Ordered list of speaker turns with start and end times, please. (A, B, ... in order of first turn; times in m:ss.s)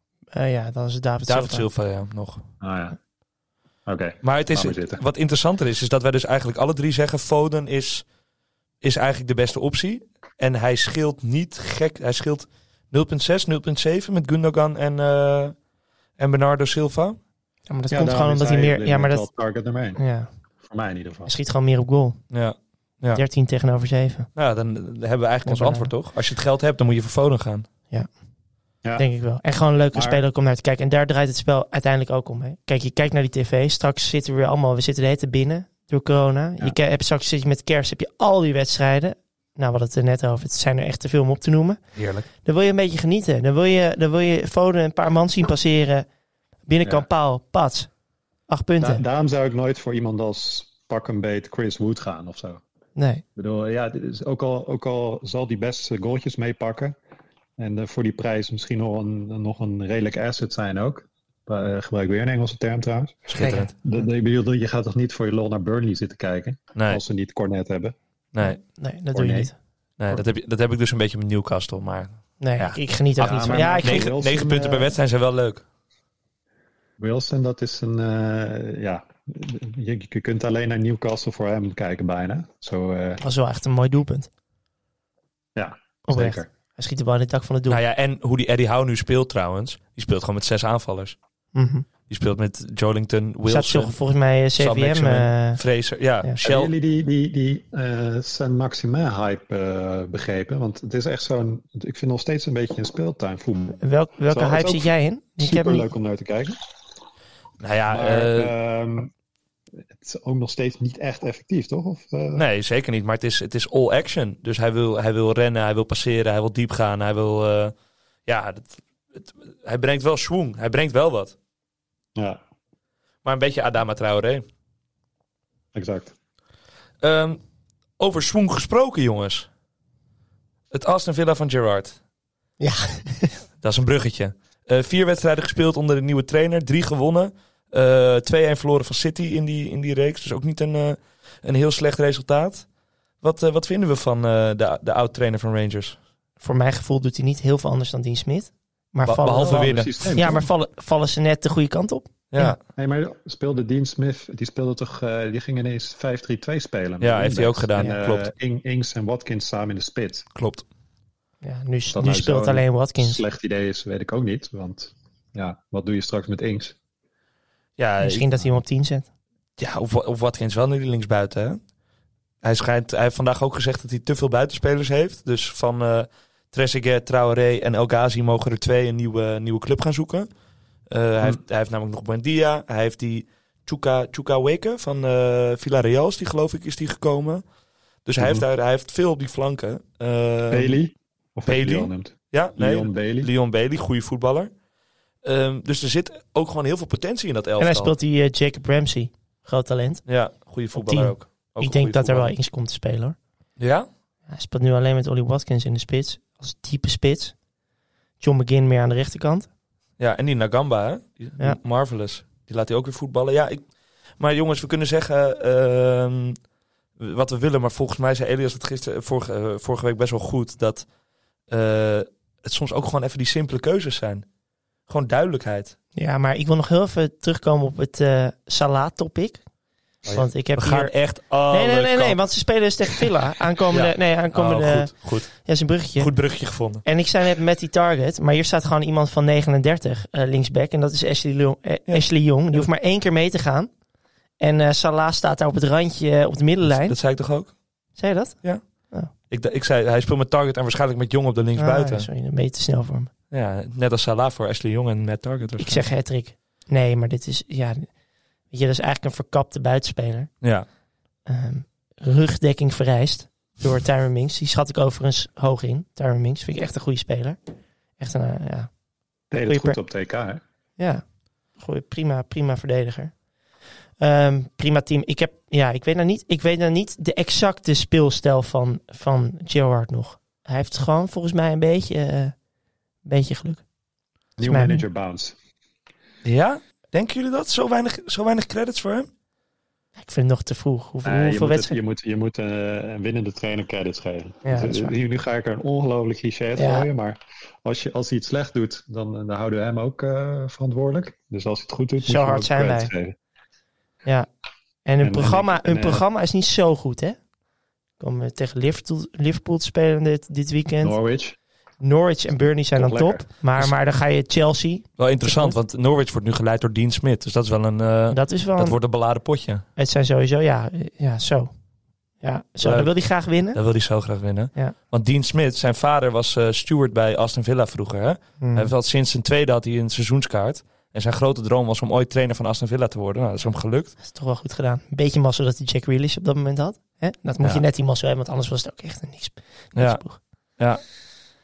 0:00.3-0:01.7 A
0:01.3-0:02.4 B
0:02.6-0:03.0 C
0:03.9-0:05.0 C
0:04.2-0:08.1 B
0:08.8-0:15.6 B
0:16.2-0:17.2 B
0:17.7-0:19.3 A
0:17.9-0:20.0 C
0:20.0-0:20.3 A
0:20.6-0:21.3 C
0:21.3-0:22.2 A
0:22.3-0:23.2 B
0:23.2-0:24.3 A
0:24.4-0:27.7 B
0:25.4-0:25.9 A
0:29.0-0:41.8 A
0:29.9-0:30.2 C
0:42.0-0:42.3 B
0:42.4-0:46.1 A
0:46.7-0:47.9 A
0:48.5-0:49.0 A
0:48.8-0:52.6 C
0:53.0-0:53.2 A
0:53.4-0:57.0 C
0:57.6-1:08.0 C
1:03.3-1:03.7 B
1:03.4-1:03.7 A
1:06.8-1:07.0 B
1:08.3-1:08.6 B
1:08.4-1:09.5 A
1:09.1-1:09.5 C
1:10.0-1:15.6 B
1:12.4-1:14.1 A
1:13.2-1:14.9 C
1:17.0-1:23.2 C
1:23.2-1:24.3 A
1:25.6-1:26.5 C
1:26.1-1:27.8 A
1:27.7-1:31.2 B
1:31.6-1:31.9 A
1:32.1-1:34.0 B
1:33.5-1:35.6 A
1:34.6-1:36.7 B
1:36.4-1:46.6 C
1:43.8-1:45.9 A
1:47.6-1:48.5 B
1:47.9-1:49.1 C
1:49.9-1:52.4 C
1:52.4-1:57.7 B
1:58.3-2:01.4 B
2:02.2-2:02.4 C
2:03.2-2:04.4 B
2:05.8-2:06.1 C
2:07.0-2:07.4 B
2:08.0-2:09.5 B
2:10.7-2:12.0 B
2:12.6-2:13.3 A
2:13.6-2:22.7 B
2:23.2-2:26.0 B
2:26.4-2:32.6 A
2:29.0-2:30.4 B
2:29.4-2:30.5 C
2:32.3-2:32.6 B
2:32.8-2:40.3 C
2:37.0-2:38.3 B
2:40.4-2:40.7 B
2:41.4-2:43.2 A
2:41.9-2:46.8 C
2:47.8-2:48.3 B
2:48.0-2:49.1 A
2:49.6-2:51.6 B
2:52.4-3:00.3 B
3:00.9-3:07.4 B
3:08.0-3:10.8 B
3:08.2-3:08.4 C
3:10.5-3:13.3 C
3:11.5-3:14.5 B
3:15.2-3:17.9 B
3:17.6-3:20.1 A
3:20.1-3:22.3 B
3:20.7-3:23.2 A
3:23.6-3:23.9 B
3:24.3-3:27.4 A
3:28.2-3:29.5 A
3:30.0-3:36.4 B
3:37.0-3:40.9 B
3:41.5-3:44.2 B
3:44.9-3:45.8 B
3:46.0-3:49.4 A
3:50.1-3:52.2 B
3:50.1-3:50.9 A
3:51.5-3:56.1 A
3:53.7-3:55.4 B
3:56.0-3:56.8 B
3:56.8-4:03.7 A
4:01.9-4:02.7 B
4:04.4-4:07.0 A
4:06.6-4:07.6 B
4:08.0-4:09.1 A
4:08.4-4:12.1 B
4:11.6-4:13.1 A
4:13.3-4:15.9 B
4:15.6-4:17.9 A
4:18.5-4:20.3 A
4:20.4-4:20.7 B
4:21.3-4:27.4 A
4:28.0-4:28.7 A
4:29.3-4:30.4 C
4:29.5-4:29.8 A
4:30.8-4:31.0 A
4:31.6-4:33.1 A
4:34.0-4:42.4 A
4:43.0-4:43.6 A
4:44.4-4:45.4 C
4:44.4-4:44.8 A
4:46.2-4:49.1 B
4:50.0-4:51.8 A
4:51.0-5:03.2 C
4:54.4-4:54.9 A
4:56.6-4:56.9 A
5:02.0-5:02.9 A
5:04.8-5:07.2 A
5:05.0-5:06.0 C
5:08.0-5:11.0 A
5:10.8-5:11.4 C
5:11.8-5:15.6 A
5:12.7-5:13.2 C
5:15.0-5:19.6 B
5:18.1-5:18.8 A
5:19.8-5:21.5 A
5:22.2-5:23.6 A
5:22.6-5:22.9 B
5:23.5-5:33.9 B
5:28.4-5:28.7 A
5:34.0-5:40.2 A
5:39.8-5:40.8 B